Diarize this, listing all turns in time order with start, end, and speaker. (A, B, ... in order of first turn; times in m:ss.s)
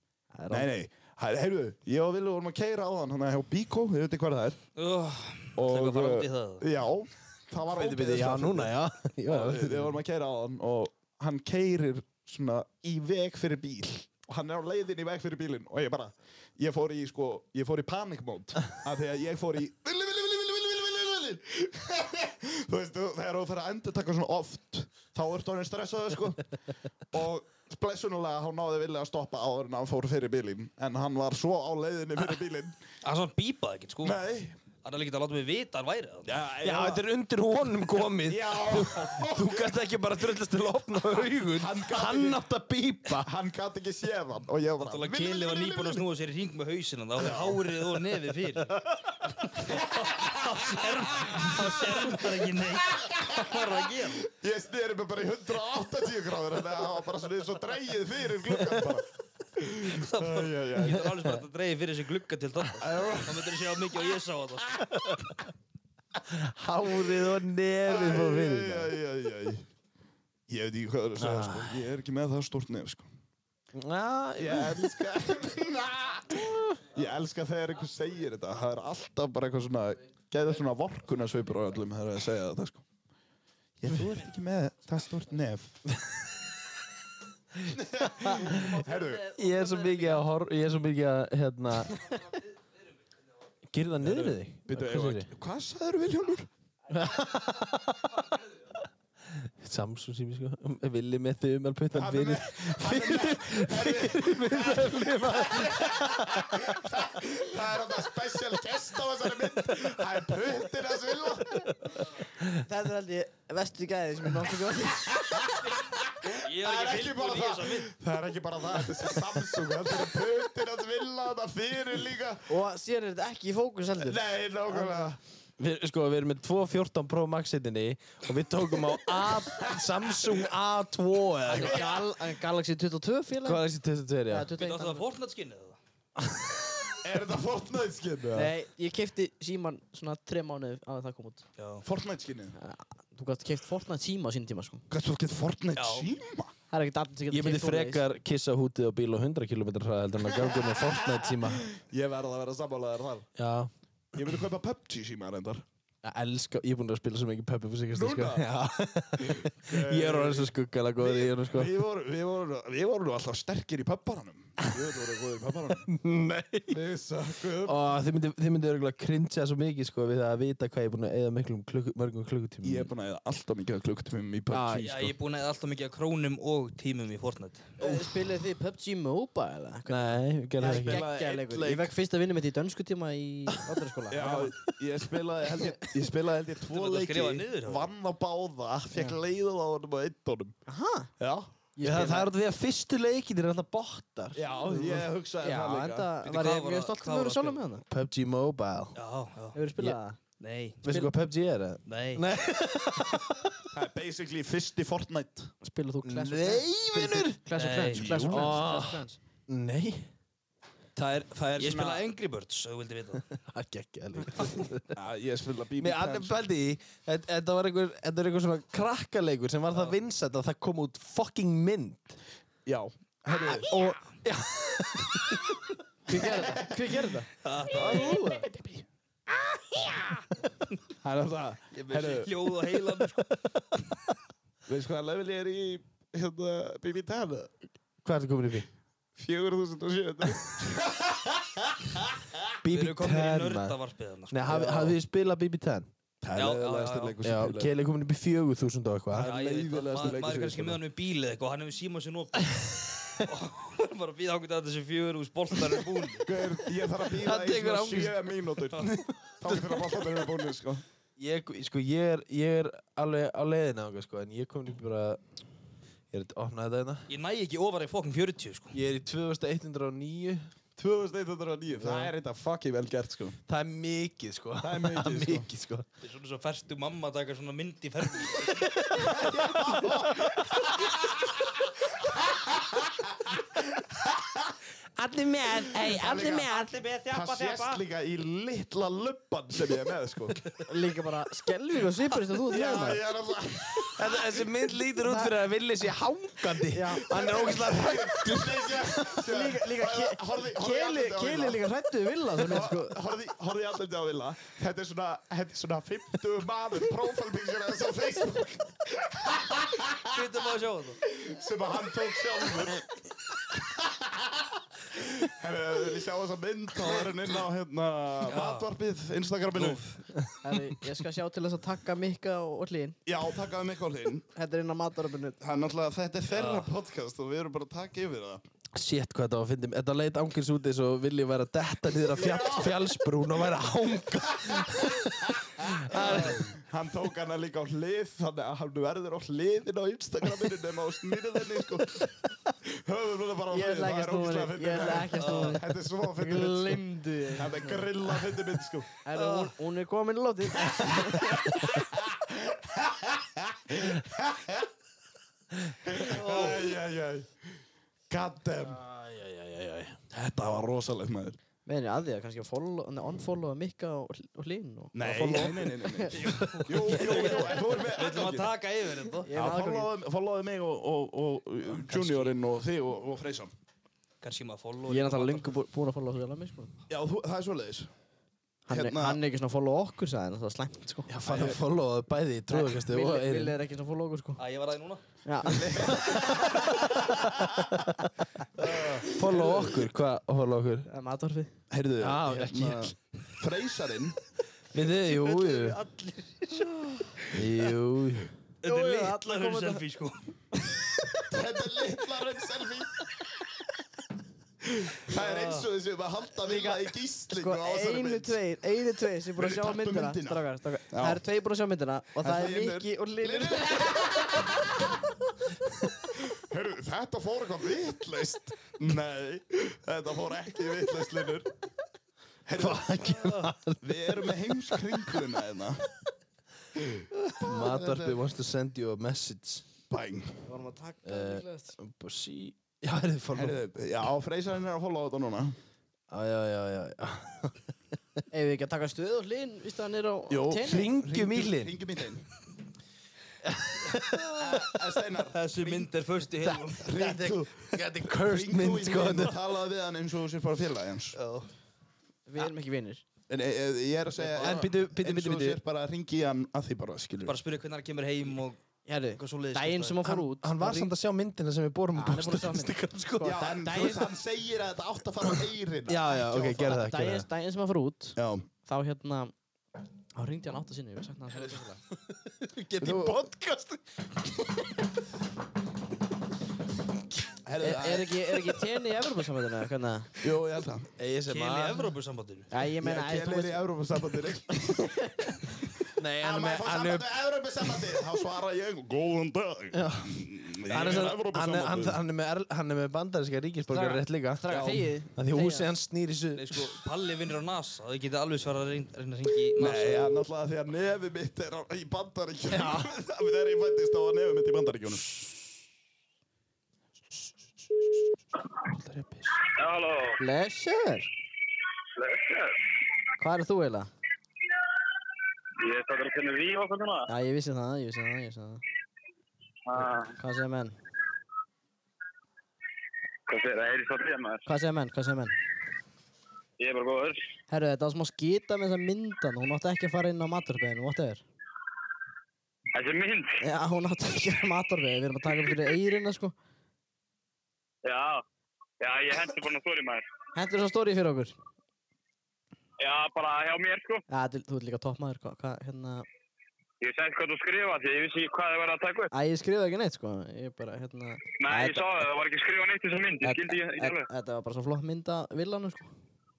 0:00.3-0:00.7 A
0:00.5-0:04.6 B
0:04.8-0:06.6 C
0:05.6-0:08.7 B
0:07.6-0:10.0 D
0:09.3-0:26.4 B
0:27.1-0:32.8 B
0:33.0-0:34.2 C
0:34.0-0:34.6 B
0:34.8-0:36.3 C
0:36.2-0:37.0 B
0:36.6-0:43.3 D
0:38.2-0:39.8 B
0:41.5-0:42.4 B
0:43.1-0:46.0 B
0:44.8-0:48.8 C
0:47.2-0:47.6 B
0:49.5-0:54.2 C
0:49.6-1:01.1 B
0:59.9-1:05.0 C
1:02.8-1:03.6 B
1:06.2-1:08.9 D
1:07.8-1:09.6 B
1:10.5-1:13.1 B
1:11.2-1:11.8 D
1:13.7-1:14.9 D
1:14.4-1:22.8 B
1:16.4-1:16.7 D
1:23.8-1:25.8 B
1:27.6-1:28.7 D
1:27.7-1:29.2 B
1:28.2-1:30.3 A
1:29.4-1:32.0 D
1:33.7-1:35.3 D
1:34.0-1:36.5 B
1:36.9-1:38.2 D
1:39.3-1:46.7 D
1:41.9-1:51.7 B
1:52.6-1:55.2 A
1:55.1-2:02.5 B
1:56.4-1:57.9 C
2:02.5-2:05.1 A
2:04.0-2:05.2 B
2:05.6-2:11.8 D
2:11.5-2:13.6 A
2:11.5-2:12.0 B
2:13.4-2:14.5 D
2:14.3-2:15.0 A
2:14.6-2:15.8 C
2:17.0-2:18.5 B
2:18.3-2:21.4 A
2:21.6-2:21.8 C
2:21.8-2:22.5 B
2:22.6-2:24.8 A
2:24.9-2:26.5 B
2:25.8-2:26.1 C
2:26.7-2:28.0 A
2:27.3-2:31.7 D
2:30.4-2:33.3 B
2:33.4-2:33.7 D
2:34.1-2:35.6 B
2:36.0-2:41.7 D
2:37.9-2:38.4 B
2:39.2-2:45.9 B
2:45.8-2:46.8 D
2:46.7-2:47.8 B
2:47.6-2:52.9 D
2:52.6-2:55.1 B
2:54.5-2:55.0 D
2:54.8-2:57.7 C
2:57.8-3:04.5 A
2:59.9-3:01.1 D
3:00.6-3:01.9 B
3:04.1-3:10.5 B
3:06.7-3:07.9 C
3:10.7-3:11.1 A
3:11.2-3:11.5 B
3:11.8-3:12.3 A
3:11.8-3:14.9 D
3:14.3-3:16.1 B
3:15.4-3:17.8 A
3:16.2-3:17.6 C
3:17.9-3:19.0 D
3:18.9-3:19.6 C
3:19.5-3:20.2 A
3:20.4-3:20.9 C
3:20.8-3:23.6 D
3:21.8-3:22.2 C
3:23.7-3:25.5 B
3:25.6-3:29.2 A
3:26.0-3:27.4 D
3:27.6-3:28.0 C
3:27.9-3:28.6 B
3:28.3-3:30.1 D
3:31.0-3:32.0 B
3:31.6-3:33.2 C
3:33.3-3:34.9 D
3:34.9-3:36.4 B
3:35.8-3:42.2 D
3:39.7-3:40.0 C
3:42.6-3:43.7 B
3:43.7-3:44.0 A
3:44.2-3:45.6 D
3:46.1-3:48.4 A
3:46.1-3:46.9 B
3:47.4-3:48.3 C
3:47.7-3:48.8 B
3:51.0-3:52.8 B
3:51.7-3:53.4 C
3:54.7-3:57.5 B
3:58.0-3:58.7 D
3:59.2-4:02.4 B
4:02.6-4:03.8 D
4:02.7-4:04.6 C
4:04.3-4:05.9 D
4:04.4-4:05.0 B
4:06.2-4:07.7 B
4:06.3-4:07.2 C
4:07.2-4:09.3 D
4:09.1-4:10.8 B
4:09.1-4:16.3 C
4:16.2-4:20.8 B
4:17.1-4:18.3 D
4:19.4-4:20.0 D
4:21.2-4:25.2 D
4:26.1-4:27.0 D
4:27.1-4:28.8 C
4:28.7-4:30.5 D
4:30.8-4:33.4 B
4:31.7-4:32.1 D
4:33.5-4:35.8 D
4:34.6-4:35.5 B
4:36.0-4:38.7 C
4:38.4-4:40.4 D
4:38.9-4:44.5 B
4:45.0-4:46.9 D
4:45.8-4:46.5 B
4:46.5-4:47.8 C
4:47.1-4:50.4 B
4:50.7-4:53.0 A
4:52.5-4:54.2 B
4:54.0-4:59.2 D
4:55.0-4:55.3 A
4:56.7-4:57.1 A
4:57.1-5:01.6 B
4:59.2-5:03.0 A
5:02.3-5:10.2 B
5:10.1-5:11.0 C
5:11.1-5:12.8 B
5:13.5-5:19.8 B
5:18.3-5:18.7 C
5:19.5-5:20.0 C
5:20.4-5:23.0 A
5:23.0-5:24.2 B
5:24.3-5:25.4 A
5:25.4-5:28.4 B
5:26.3-5:26.7 C
5:28.7-5:36.4 D
5:32.1-5:33.0 B
5:34.3-5:42.1 B
5:36.0-5:36.3 C
5:42.6-5:48.9 B
5:43.5-5:45.6 A
5:45.2-5:45.6 C
5:46.1-5:47.9 A
5:49.0-5:51.6 A
5:49.1-5:49.5 C
5:50.6-5:54.7 B
5:55.8-5:57.5 B
5:56.0-5:56.7 C
5:58.1-5:58.8 B
5:58.6-6:00.0 D
6:00.1-6:01.4 B
6:01.6-6:07.4 A
6:04.9-6:08.5 B
6:06.1-6:09.4 C
6:09.2-6:09.9 A
6:09.3-6:13.5 B
6:11.7-6:12.3 C
6:14.2-6:15.5 C
6:14.9-6:16.7 A
6:16.9-6:17.9 B
6:18.7-6:21.1 A
6:18.7-6:19.2 B
6:21.1-6:23.6 D
6:21.2-6:21.6 B
6:22.5-6:24.4 A
6:24.4-6:25.0 C
6:25.2-6:26.0 A
6:25.4-6:27.7 B
6:25.9-6:28.1 D
6:28.6-6:29.1 C
6:28.6-6:29.8 B
6:29.1-6:30.9 D
6:30.9-6:31.5 A
6:31.7-6:34.2 B
6:32.0-6:32.9 D
6:34.7-6:35.8 D
6:34.9-6:36.8 C
6:37.3-6:38.3 D
6:38.6-6:40.2 C
6:38.6-6:39.8 A
6:41.2-6:43.0 B
6:44.6-6:48.4 B
6:45.1-6:45.7 C
6:46.4-6:54.3 A
6:49.4-6:51.2 B
6:52.2-6:54.9 B
6:56.2-7:01.5 B
7:02.4-7:03.0 B
7:02.6-7:04.2 D
7:03.0-7:03.5 C
7:03.8-7:05.8 B
7:06.8-7:08.2 B
7:07.2-7:09.6 D
7:09.9-7:10.4 B
7:10.4-7:11.7 A
7:11.0-7:13.6 D
7:13.3-7:15.6 B
7:16.1-7:17.6 D
7:18.3-7:20.9 A
7:20.3-7:22.2 B
7:20.5-7:21.7 D
7:23.4-7:24.8 D
7:24.2-7:25.9 B
7:25.3-7:26.9 C
7:26.4-7:29.3 D
7:26.8-7:31.2 B
7:31.1-7:31.5 C
7:32.3-7:33.0 A
7:33.3-7:37.4 B
7:34.2-7:34.6 C
7:34.4-7:35.6 D
7:37.2-7:38.6 C
7:38.8-7:40.9 A
7:39.2-7:40.0 C
7:40.0-7:43.9 D
7:41.9-7:44.1 A
7:43.2-7:46.8 B
7:45.9-7:47.2 D
7:46.6-7:49.3 A
7:48.2-7:48.5 B
7:50.1-7:51.8 A
7:52.1-7:53.8 D
7:52.8-7:53.2 B
7:57.4-7:58.1 B
7:57.6-8:00.1 A
8:00.2-8:00.9 B
8:01.0-8:01.9 D
8:01.3-8:02.5 C
8:02.5-8:03.6 A
8:02.8-8:05.2 B
8:06.0-8:07.1 D
8:06.2-8:12.0 B
8:09.7-8:16.8 D
8:10.7-8:11.1 C
8:13.7-8:15.7 A
8:14.5-8:14.8 B
8:16.3-8:20.2 C
8:19.6-8:25.4 B
8:22.5-8:22.9 D
8:28.7-8:29.4 D
8:29.4-8:30.2 E
8:30.2-8:31.1 A
8:32.0-8:32.6 E
8:33.2-8:33.9 A
8:35.6-8:37.1 E
8:37.1-8:38.6 A
8:39.7-8:40.1 E
8:39.8-8:40.8 A
8:43.3-8:44.4 E
8:44.4-8:45.4 A
8:46.6-8:47.2 E
8:47.5-8:51.2 A
8:52.7-8:53.4 E
8:53.4-8:56.3 A
8:57.8-8:58.2 E
8:58.8-9:00.0 E
9:00.3-9:01.4 A
9:02.8-9:04.0 E
9:04.1-9:06.0 A
9:06.8-9:09.1 E
9:09.1-9:12.0 A
9:11.4-9:14.1 E
9:13.2-9:15.9 A